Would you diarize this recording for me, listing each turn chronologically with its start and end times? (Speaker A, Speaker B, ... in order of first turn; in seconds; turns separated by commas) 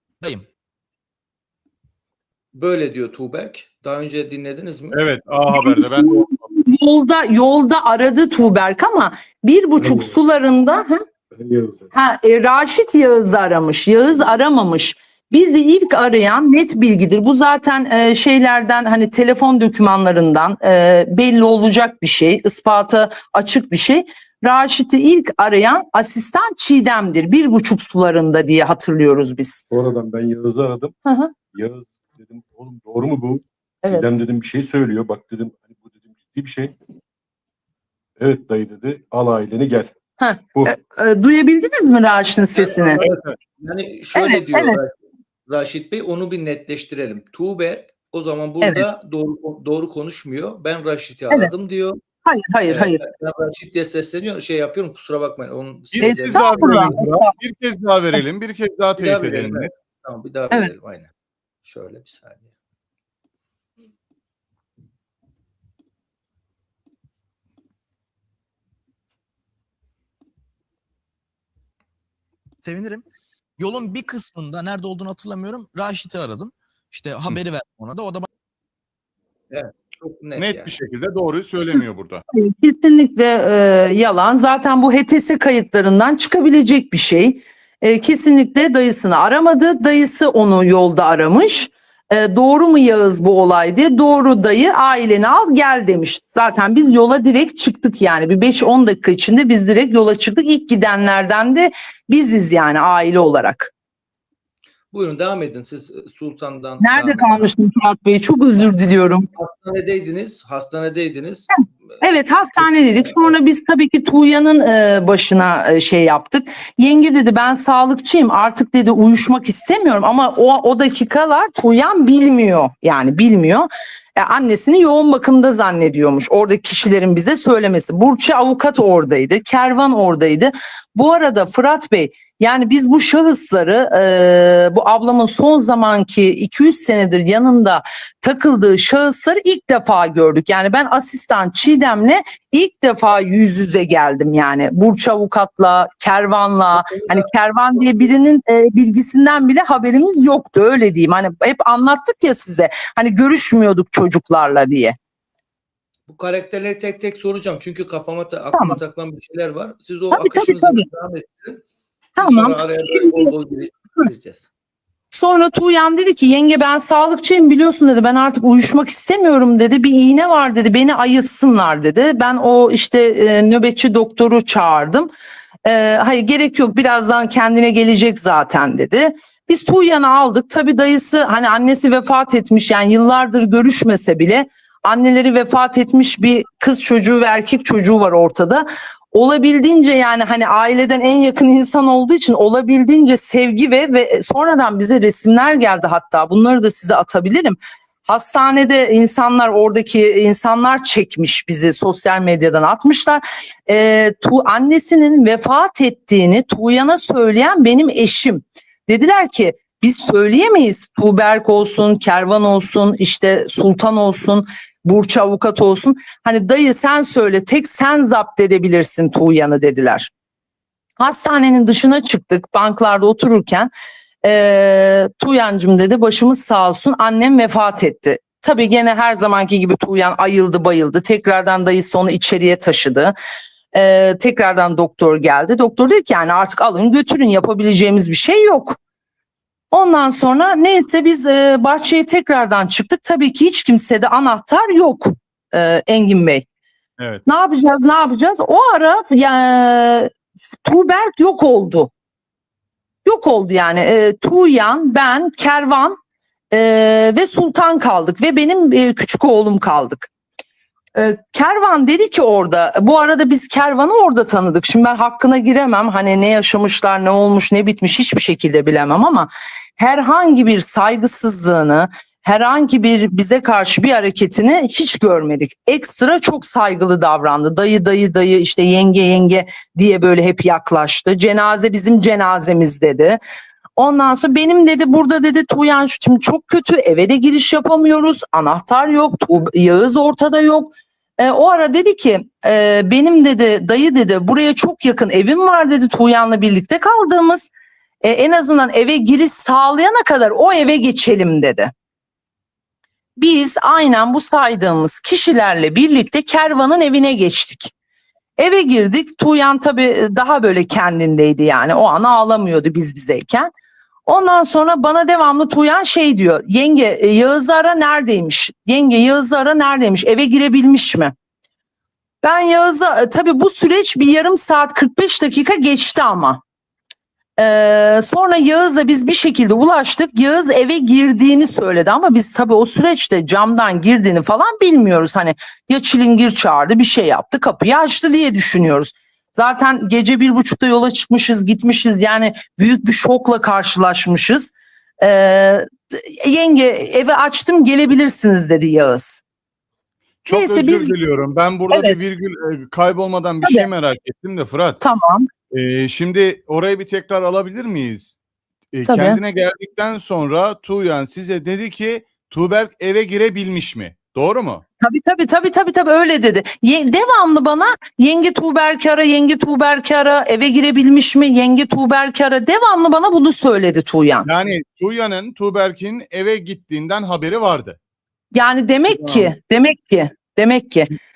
Speaker A: 0.2-0.5, Speaker B: 2.5-5.0, Speaker C: 4.9-6.3, Speaker D: 5.5-11.0, Speaker E: 9.8-10.2, Speaker E: 11.3-11.9, Speaker D: 11.9-29.6, Speaker E: 29.7-30.9, Speaker D: 31.1-31.3, Speaker E: 31.5-36.8, Speaker E: 38.2-39.9, Speaker D: 40.2-43.0, Speaker B: 42.6-44.9, Speaker C: 43.0-43.4, Speaker D: 44.1-44.8, Speaker B: 45.5-52.0, Speaker D: 48.6-48.9, Speaker D: 52.2-53.0, Speaker B: 52.7-57.0, Speaker C: 55.9-59.7, Speaker D: 56.0-57.3, Speaker B: 59.0-61.1, Speaker B: 61.6-62.5, Speaker A: 72.6-73.0, Speaker A: 73.6-78.3, Speaker B: 79.5-80.7, Speaker C: 80.4-82.2, Speaker D: 82.3-103.7, Speaker B: 104.9-107.5, Speaker D: 106.8-109.3, Speaker B: 109.4-111.6, Speaker D: 112.0-155.0, Speaker B: 112.6-113.3, Speaker B: 146.7-148.1, Speaker B: 156.1-161.6, Speaker D: 158.5-158.8, Speaker D: 160.1-160.9, Speaker D: 162.2-163.3, Speaker B: 162.2-164.5, Speaker D: 165.1-175.1, Speaker D: 175.7-220.1, Speaker D: 221.0-223.7, Speaker D: 224.2-233.1, Speaker D: 233.7-238.8, Speaker D: 239.7-246.4, Speaker C: 247.0-247.2, Speaker D: 247.3-250.1, Speaker D: 250.7-251.9, Speaker D: 253.1-256.0, Speaker D: 256.5-260.1, Speaker D: 261.0-283.2, Speaker D: 283.8-297.5, Speaker D: 298.0-301.7, Speaker D: 303.2-307.7, Speaker D: 308.4-313.5, Speaker D: 314.1-321.1, Speaker D: 322.2-326.4, Speaker D: 327.4-349.2, Speaker C: 350.2-354.8, Speaker D: 350.3-350.9, Speaker D: 351.7-352.0, Speaker D: 353.4-353.7, Speaker D: 354.8-355.3, Speaker C: 355.5-358.2, Speaker C: 358.7-364.6, Speaker D: 358.9-359.2, Speaker D: 364.8-374.3, Speaker C: 374.2-377.8, Speaker D: 378.3-380.9, Speaker C: 378.9-379.3